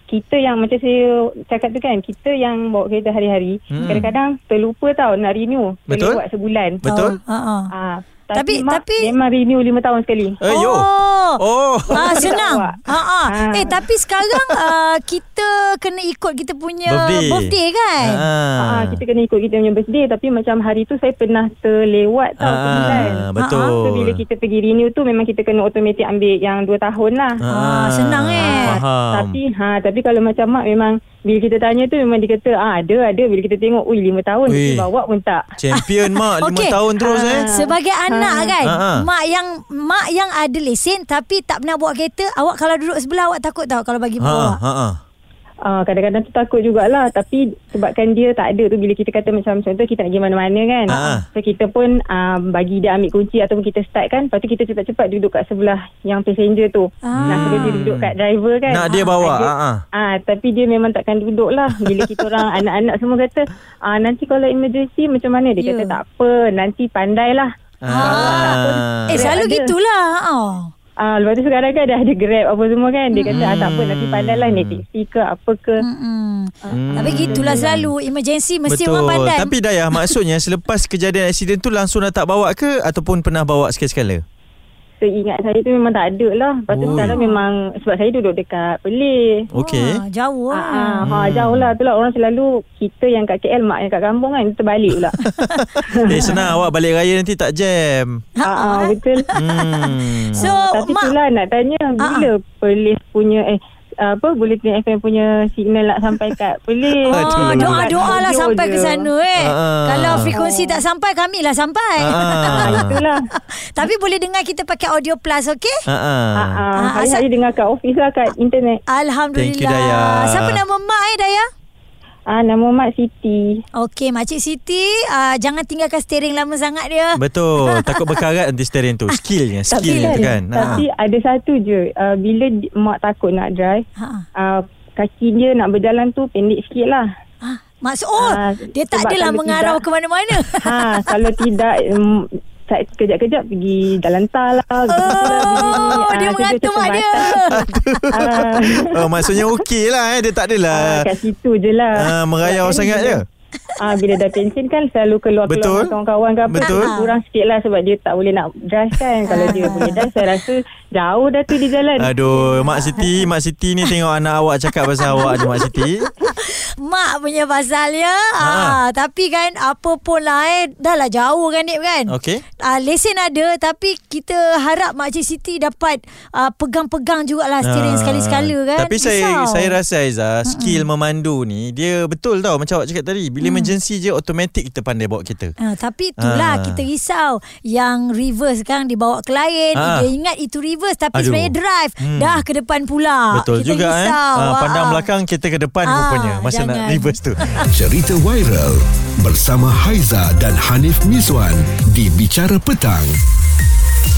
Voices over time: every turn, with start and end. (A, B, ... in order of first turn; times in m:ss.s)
0:00.1-0:07.2 A
0:03.7-0:04.1 B
0:03.8-0:04.1 C
0:05.9-0:06.2 B
0:06.8-0:07.1 B
0:06.8-0:07.7 C
0:07.8-0:10.4 A
0:08.4-0:09.1 C
0:10.4-0:12.2 B
0:10.5-0:11.4 C
0:11.9-0:13.8 A
0:12.0-0:18.2 C
0:16.9-0:19.0 B
0:18.6-0:27.4 A
0:22.4-0:24.2 B
0:22.8-0:23.6 C
0:27.4-0:29.4 B
0:27.5-0:28.8 C
0:28.4-0:35.4 A
0:34.5-0:34.8 B
0:35.6-0:37.5 B
0:36.4-0:44.6 C
0:37.0-0:38.6 A
0:38.6-0:39.1 B
0:44.2-0:45.0 B
0:45.7-1:07.5 A
0:50.9-0:51.3 B
0:50.9-0:51.2 C
0:57.0-0:57.8 C
0:57.2-0:58.1 B
0:58.7-0:59.8 B
0:58.9-0:59.2 C
1:05.6-1:06.0 C
1:07.8-1:09.1 B
1:07.9-1:10.7 C
1:08.0-1:09.7 A
1:11.0-1:15.8 A
1:13.1-1:13.5 C
1:13.3-1:14.8 B
1:15.8-1:20.1 C
1:16.7-1:17.8 A
1:16.7-1:17.7 B
1:18.7-1:24.2 B
1:25.0-1:29.5 A
1:26.7-1:27.2 B
1:26.9-1:27.4 C
1:29.5-1:30.0 B
1:29.6-1:31.0 C
1:30.5-1:35.2 A
1:31.1-1:31.7 B
1:35.3-1:38.2 B
1:35.9-1:36.5 A
1:36.2-1:36.5 C
1:38.4-1:38.9 C
1:38.4-1:39.3 A
1:39.3-1:40.4 B
1:39.6-1:41.1 C
1:40.4-1:49.0 A
1:42.0-1:42.3 C
1:47.0-1:55.8 C
1:47.1-1:47.9 B
1:49.4-1:50.3 B
1:50.4-1:50.8 A
1:52.0-1:52.9 B
1:52.5-1:53.2 A
1:55.9-1:56.6 B
1:56.4-1:58.8 A
1:56.8-1:57.2 C
1:58.9-2:01.5 C
1:59.4-2:00.6 B
2:02.3-2:03.6 A
2:03.8-2:07.2 C
2:07.2-2:10.8 B
2:07.7-2:08.2 C
2:09.7-2:13.8 A
2:09.8-2:10.8 C
2:14.0-2:14.2 C
2:14.4-2:17.0 A
2:17.4-2:20.8 C
2:18.2-2:19.8 A
2:20.6-2:29.5 A
2:24.9-2:28.4 C
2:27.6-2:28.2 B
2:28.9-2:31.1 B
2:30.7-2:33.2 A
2:32.0-2:33.2 B
2:33.8-2:43.2 A
2:35.5-2:35.9 B
2:36.5-2:36.9 B
2:36.6-2:37.1 C
2:39.3-2:40.0 C
2:42.0-2:46.1 B
2:45.0-2:59.8 C
2:48.4-2:48.8 B
2:52.1-2:52.4 B
2:57.6-3:05.6 B
3:00.5-3:00.8 C
3:03.4-3:03.7 C
3:05.6-3:15.1 C
3:06.2-3:06.8 B
3:09.7-3:10.1 B
3:11.1-3:12.4 B
3:13.3-3:17.4 B
3:15.8-3:17.7 C
3:17.7-3:23.2 D